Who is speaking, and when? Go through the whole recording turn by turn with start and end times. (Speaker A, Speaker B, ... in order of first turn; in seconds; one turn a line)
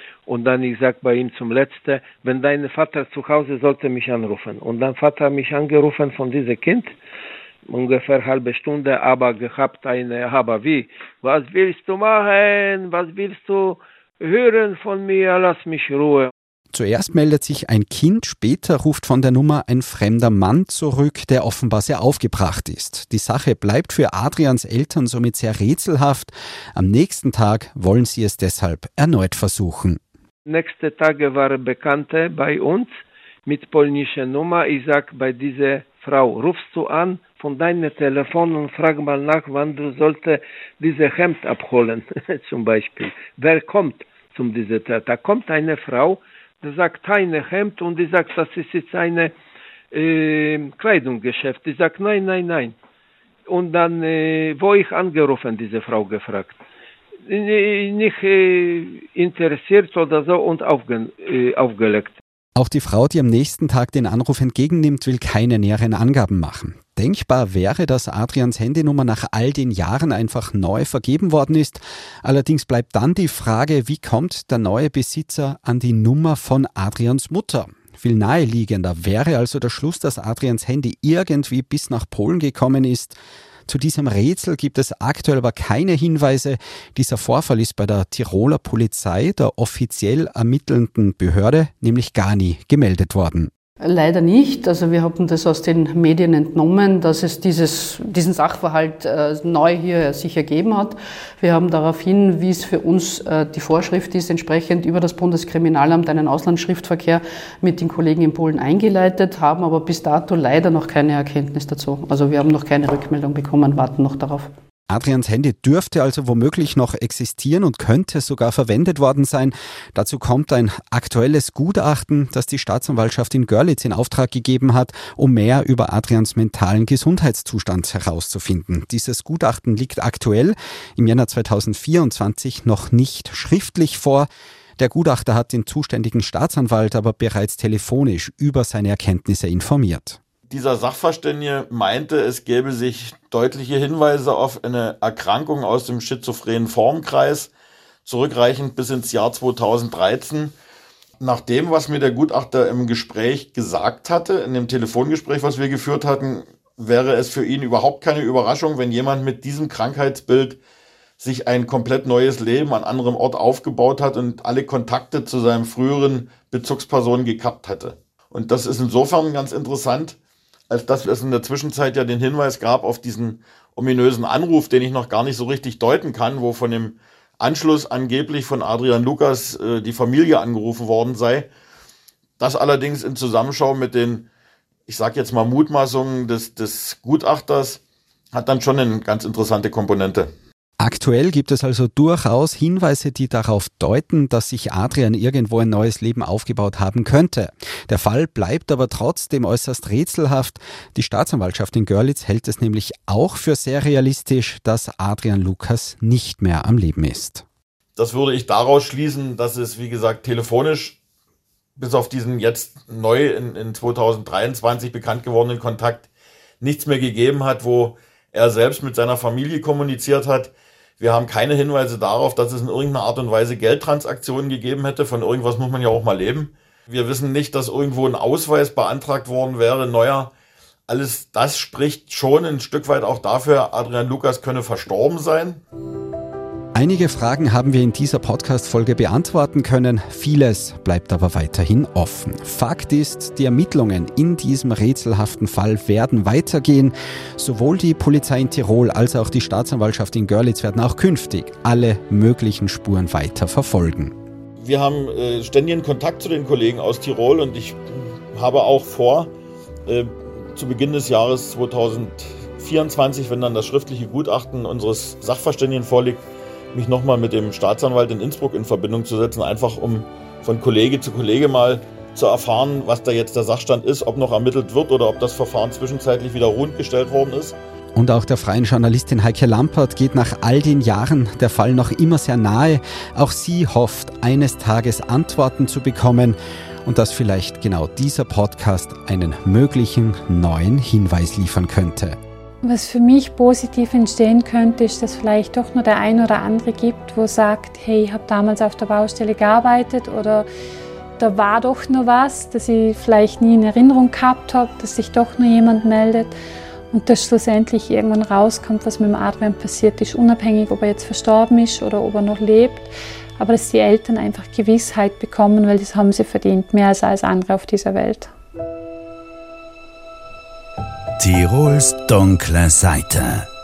Speaker A: 0.3-6.9
Speaker A: 7.7-16.3
Speaker B: 16.7-30.0
Speaker A: 30.4-32.9
Speaker A: 33.5-49.3
Speaker A: 49.9-52.7
Speaker A: 53.5-56.6
Speaker A: 57.2-62.2
Speaker B: 62.5-93.5
Speaker C: 93.8-114.5
Speaker B: 114.9-140.2
Speaker D: 140.5-147.5
Speaker D: 148.0-150.5
Speaker D: 151.2-160.6
Speaker D: 161.2-170.2
Speaker D: 170.7-181.5
Speaker D: 182.4-184.3
Speaker D: 184.9-187.8
Speaker D: 188.3-190.3
Speaker B: 190.8-207.4
Speaker D: 207.9-211.0
Speaker D: 211.8-216.1
Speaker D: 216.6-230.3
Speaker D: 230.9-235.6
Speaker B: 236.7-254.1
Speaker D: 254.6-257.8
Speaker D: 258.3-259.3
Speaker D: 259.9-277.6
Speaker B: 277.9-292.2
Speaker E: 292.6-300.4
Speaker E: 301.2-306.3
Speaker E: 306.9-318.3
Speaker F: 321.2-323.5